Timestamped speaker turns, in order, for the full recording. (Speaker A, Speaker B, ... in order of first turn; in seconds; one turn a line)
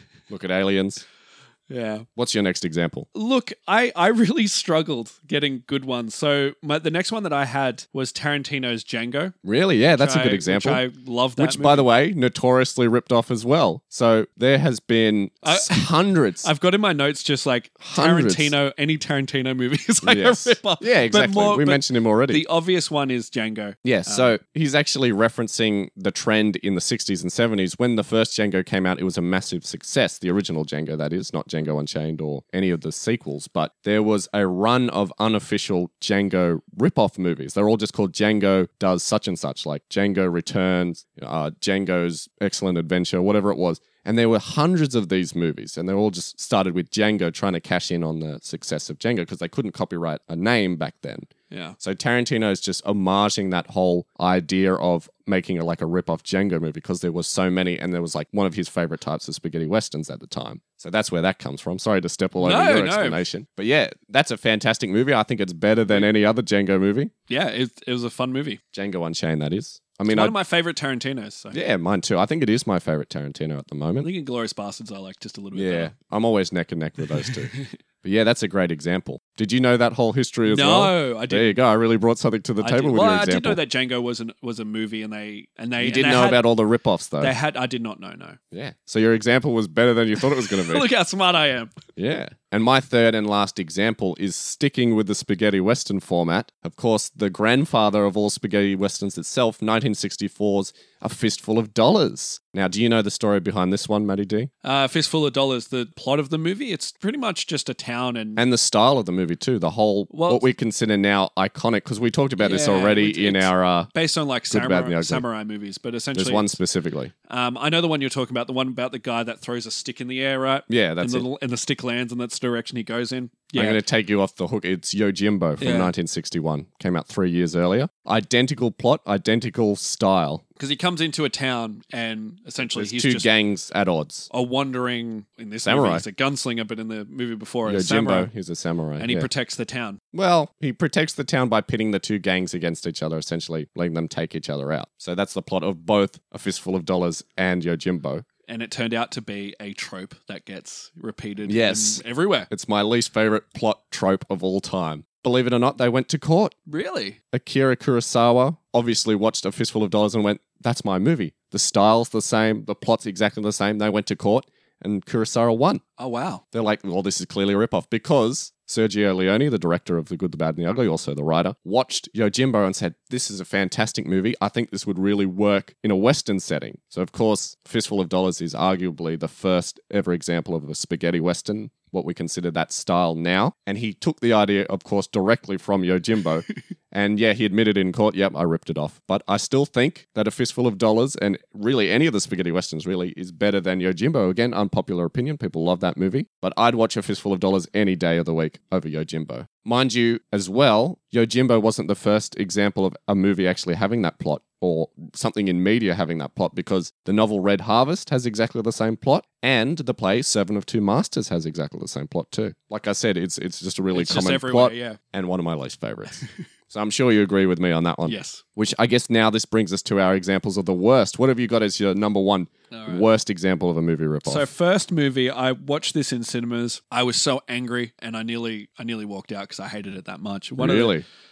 Speaker A: 0.3-1.0
Speaker B: 1.7-2.1
Speaker A: 2.2-3.1
Speaker B: 3.1-9.3
Speaker A: 9.4-10.8
Speaker B: 9.9-11.9
Speaker A: 11.4-16.5
Speaker B: 15.4-15.8
Speaker B: 16.4-24.3
Speaker A: 17.8-18.5
Speaker A: 20.0-22.4
Speaker A: 23.8-67.1
Speaker B: 51.5-51.8
Speaker B: 62.4-63.2
Speaker B: 67.3-68.6
Speaker A: 68.7-70.3
Speaker B: 70.1-71.6
Speaker A: 71.5-74.1
Speaker B: 74.0-75.9
Speaker A: 75.5-83.6
Speaker B: 77.1-77.6
Speaker B: 80.5-81.6
Speaker B: 82.6-86.4
Speaker A: 85.8-87.3
Speaker B: 87.2-88.4
Speaker A: 88.5-90.9
Speaker B: 90.2-91.8
Speaker A: 92.0-104.5
Speaker B: 104.6-108.4
Speaker A: 108.4-113.9
Speaker B: 110.1-110.5
Speaker B: 112.4-116.5
Speaker A: 114.5-115.2
Speaker A: 116.2-117.1
Speaker B: 117.3-123.8
Speaker A: 120.7-121.3
Speaker A: 123.5-130.4
Speaker B: 125.6-125.9
Speaker B: 130.6-133.3
Speaker A: 132.7-134.3
Speaker B: 134.3-138.3
Speaker A: 135.7-136.0
Speaker A: 137.7-139.3
Speaker B: 139.0-140.0
Speaker A: 140.1-148.2
Speaker B: 148.5-152.5
Speaker A: 151.5-156.5
Speaker B: 156.7-157.2
Speaker A: 157.3-165.8
Speaker B: 166.0-166.4
Speaker A: 166.5-224.5
Speaker B: 213.9-215.0
Speaker B: 218.1-218.4
Speaker B: 222.7-223.1
Speaker B: 224.2-230.9
Speaker A: 230.6-231.1